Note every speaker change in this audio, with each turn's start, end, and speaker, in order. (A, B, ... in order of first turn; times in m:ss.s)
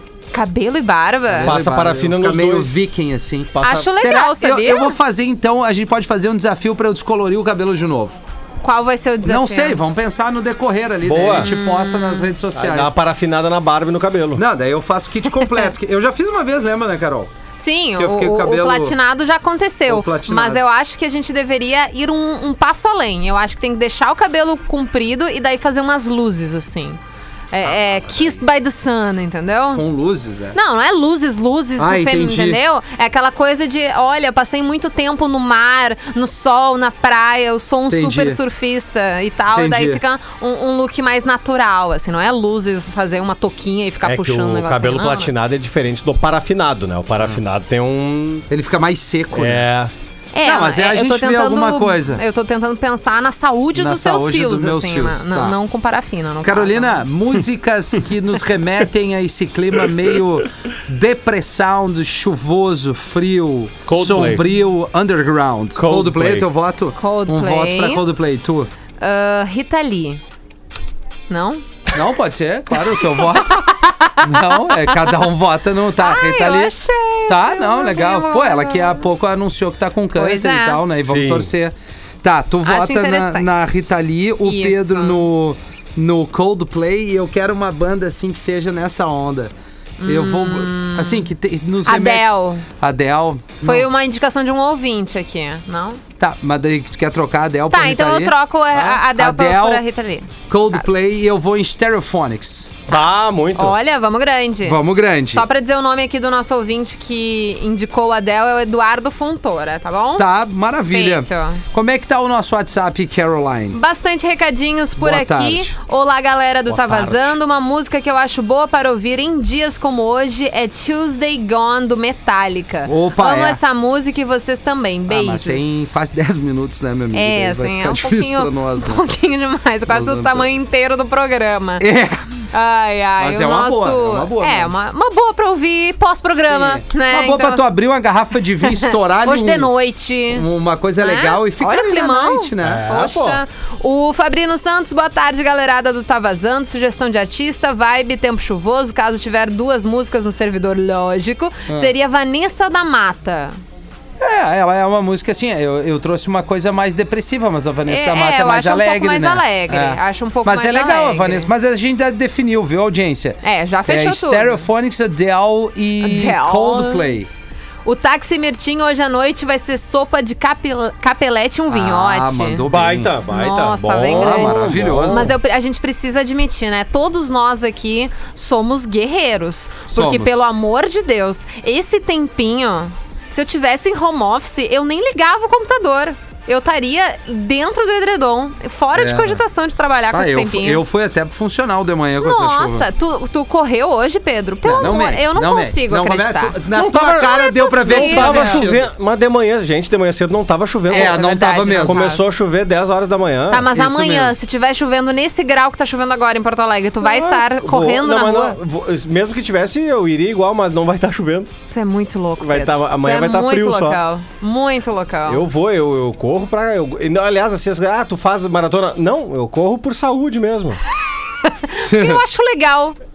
0:00.3-0:01.6 A
0:01.3-0:08.2 B
0:01.4-0:02.8 C
0:03.5-0:04.1 C
0:03.6-0:05.0 A
0:08.6-0:09.8 A
0:09.2-0:13.0 B
0:11.0-0:11.5 C
0:11.4-0:12.3 A
0:12.5-0:14.4 C
0:14.4-0:17.3 B
0:17.6-0:27.0 A
0:18.0-0:19.0 B
0:19.9-0:20.6 B
0:27.5-0:29.8 A
0:29.7-0:30.6 B
0:30.5-0:45.3 A
0:31.8-0:32.6 B
0:37.9-0:38.4 B
0:39.5-0:40.0 B
0:44.0-0:48.5 C
0:48.5-0:49.7 B
0:49.3-0:49.9 C
0:50.3-0:57.1 A
0:50.4-0:52.2 B
0:53.8-0:55.6 B
0:56.4-1:08.7 B
1:03.9-1:04.5 C
1:05.8-1:06.5 C
1:07.0-1:08.0 A
1:09.0-1:10.2 A
1:11.3-1:11.6 A
1:11.9-1:13.6 B
1:13.3-1:15.1 A
1:14.2-1:16.7 B
1:16.0-1:19.0 A
1:17.3-1:29.5 B
1:20.2-1:20.8 A
1:21.0-1:21.5 C
1:22.6-1:23.9 A
1:24.4-1:25.2 A
1:30.0-1:31.3 A
1:30.1-1:34.0 B
1:31.9-1:32.6 A
1:33.6-1:36.0 A
1:36.2-1:38.3 B
1:37.7-1:40.3 A
1:38.7-1:39.0 C
1:39.1-1:39.8 B
1:40.5-1:42.7 B
1:42.9-1:43.8 C
1:43.6-1:50.3 A
1:44.6-1:45.5 B
1:50.2-1:53.8 B
1:50.9-1:51.6 A
1:53.7-2:05.9 A
1:55.0-1:55.7 B
1:56.7-1:57.4 C
2:02.9-2:03.6 B
2:05.1-2:09.0 B
2:07.1-2:11.8 A
2:09.9-2:10.5 B
2:11.8-2:12.2 B
2:12.5-2:17.7 A
2:13.2-2:14.7 B
2:16.5-2:19.7 B
2:18.6-2:20.5 A
2:20.3-2:22.9 B
2:21.0-2:33.6 A
2:22.6-2:23.4 C
2:34.2-2:47.3 B
2:37.9-2:41.5 A
2:43.4-2:44.6 A
2:46.0-2:47.1 A
2:47.8-2:52.6 A
2:51.7-2:53.2 B
2:52.7-2:55.4 C
2:53.3-3:10.8 A
2:54.0-2:55.3 B
2:59.9-3:00.4 B
3:09.0-3:09.4 B
3:10.1-3:12.9 B
3:12.2-3:16.6 A
3:14.6-3:18.9 B
3:16.7-3:23.7 C
3:17.2-3:18.6 A
3:20.9-3:22.2 A
3:20.9-3:22.2 B
3:23.5-3:28.6 A
3:23.7-3:24.3 B
3:27.0-3:31.5 C
3:31.7-3:35.4 A
3:32.4-3:34.0 C
3:35.3-3:40.8 C
3:41.4-3:43.0 A
3:41.9-3:42.2 B